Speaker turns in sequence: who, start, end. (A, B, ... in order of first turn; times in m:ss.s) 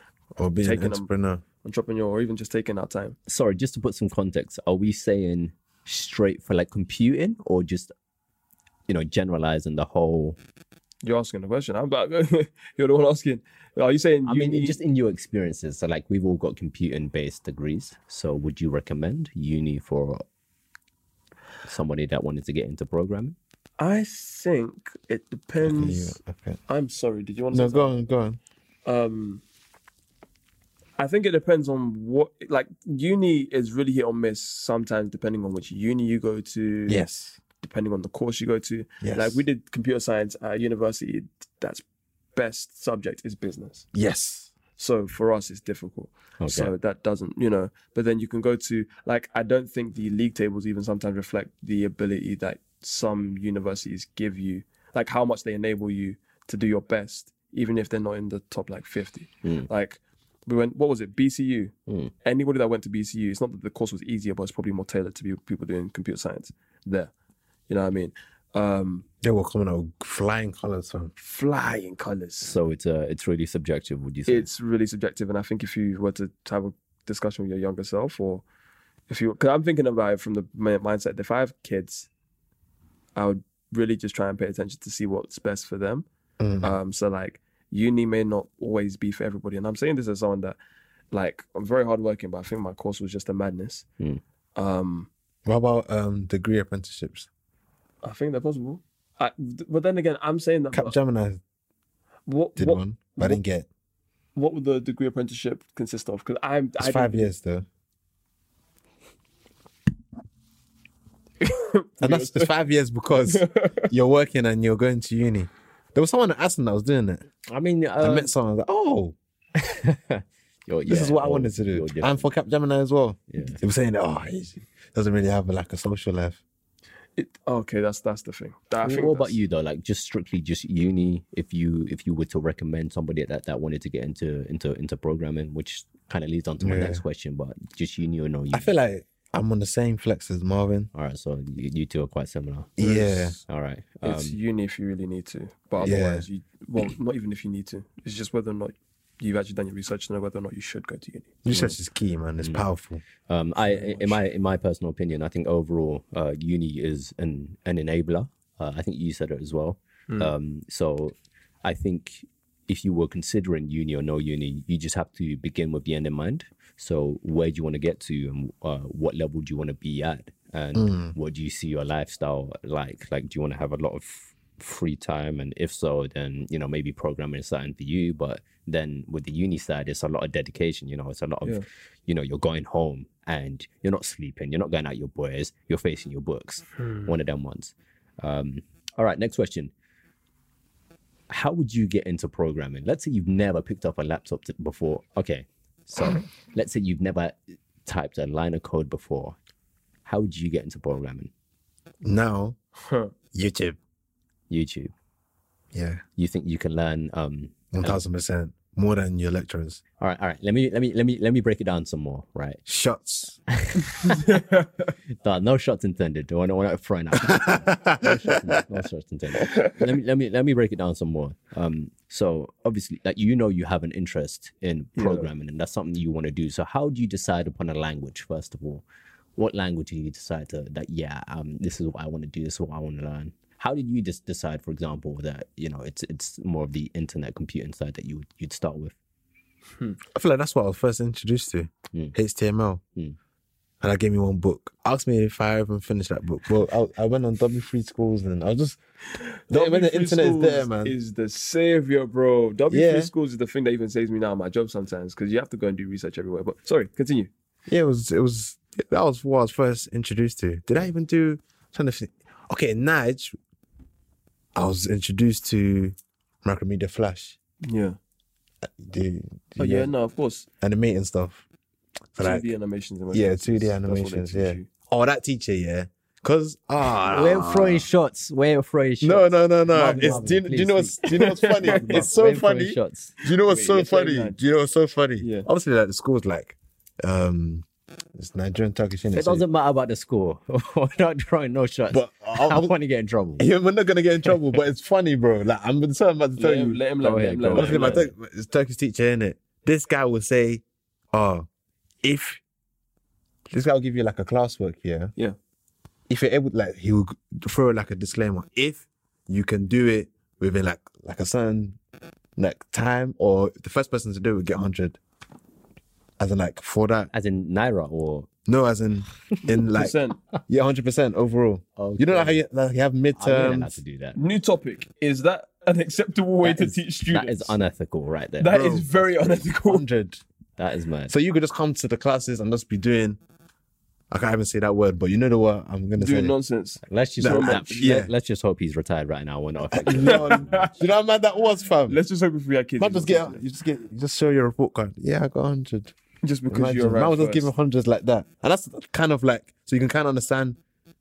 0:00.4-0:01.4 A
0:00.6-0:01.1 B
0:01.6-0:03.2 B
0:03.3-0:07.9 C
0:08.9-0:10.4 C
0:11.0-0:14.8 B
0:14.2-0:20.2 C
0:21.6-0:23.4 C
0:23.8-0:28.0 B
0:25.6-0:26.6 A
0:27.5-0:28.4 A
0:28.8-0:29.4 B
0:31.0-0:41.8 B
0:36.9-0:37.4 A
0:39.0-0:39.4 A
0:42.4-0:43.9 B
0:43.9-0:44.5 A
0:44.8-1:01.7 B
0:46.4-0:46.7 C
1:02.2-1:07.1 B
1:07.7-1:09.0 B
1:09.2-1:11.1 A
1:11.2-1:12.6 B
1:12.4-1:14.5 C
1:14.2-1:18.4 B
1:19.1-1:22.1 B
1:23.2-1:26.0 B
1:26.4-1:26.8 A
1:26.6-1:30.6 B
1:31.1-1:33.8 B
1:34.6-1:35.1 B
1:35.4-1:37.3 A
1:38.0-1:40.9 B
1:40.7-1:41.4 A
1:42.3-1:43.4 B
1:42.6-1:43.6 A
1:44.4-1:47.3 B
1:46.8-1:47.6 A
1:51.4-1:52.5 B
1:52.0-1:57.2 A
1:53.2-1:53.9 B
1:57.5-1:58.3 C
1:58.0-1:59.2 A
1:59.6-2:02.3 C
2:00.8-2:06.4 A
2:03.3-2:03.6 C
2:07.2-2:09.4 B
2:08.8-2:18.7 C
2:16.6-2:17.0 A
2:18.5-2:20.9 A
2:20.9-2:22.8 C
2:22.8-2:23.4 A
2:22.8-2:23.4 B
2:23.4-2:24.4 C
2:24.0-2:31.4 B
2:25.8-2:26.2 A
2:31.4-2:33.0 A
2:31.5-2:31.8 C
2:32.4-2:32.6 C
2:33.3-3:09.7 C
2:33.6-2:34.2 B
2:50.7-2:51.1 A
3:11.3-3:19.4 C
3:20.0-3:21.3 C
3:22.0-3:22.6 A
3:22.8-3:23.1 B
3:23.3-3:23.8 A
3:24.5-3:24.9 C
3:25.7-3:26.0 A
3:26.2-3:28.0 C
3:27.7-3:29.8 A
3:30.0-3:32.6 C
3:32.6-3:33.4 A
3:33.5-3:34.1 C
3:33.8-3:34.9 B
3:35.2-3:48.8 C
3:37.2-3:38.5 A
3:44.9-3:45.3 B
3:49.4-3:58.9 C
4:00.1-4:02.8 A
4:03.8-4:08.8 A
4:09.2-4:17.3 B
4:09.5-4:11.0 A
4:12.7-4:13.1 A
4:17.7-4:23.3 A
4:24.5-4:27.4 A
4:27.6-4:28.0 B
4:28.6-4:29.9 A
4:29.6-4:30.5 B
4:30.6-4:31.4 A
4:32.2-4:32.5 A
4:32.2-4:34.7 B
4:33.1-4:37.9 A
4:37.1-4:41.1 C
4:39.0-4:49.4 A
4:39.8-4:40.2 B
4:41.0-4:42.1 B
4:41.6-4:43.2 C
4:43.2-4:44.4 B
4:45.2-4:45.5 B
4:49.1-4:53.4 C
4:51.9-4:52.7 A
4:53.4-4:56.8 A
4:56.4-4:58.0 B
4:57.0-4:58.1 C
4:57.5-5:01.5 A
5:02.0-5:02.4 A
5:03.5-5:05.1 A
5:06.1-5:11.8 A
5:12.4-5:15.0 A
5:16.2-5:17.1 A
5:17.1-5:18.3 C
5:18.5-5:19.9 A
5:19.5-5:20.2 B
5:20.5-5:23.8 A
5:21.8-5:22.4 C
5:23.1-5:24.2 C
5:24.1-5:27.6 B
5:26.4-5:28.6 C
5:28.4-5:29.8 B
5:28.5-5:30.2 A
5:30.6-5:31.1 C
5:31.1-5:33.2 A
5:34.1-5:36.3 A
5:36.0-5:38.0 B
5:36.8-5:40.7 C
5:37.2-5:38.1 A
5:39.7-5:42.0 A
5:40.0-5:40.7 B
5:41.9-5:43.4 B
5:42.8-5:45.9 A
5:46.2-5:47.5 B
5:46.5-5:50.6 A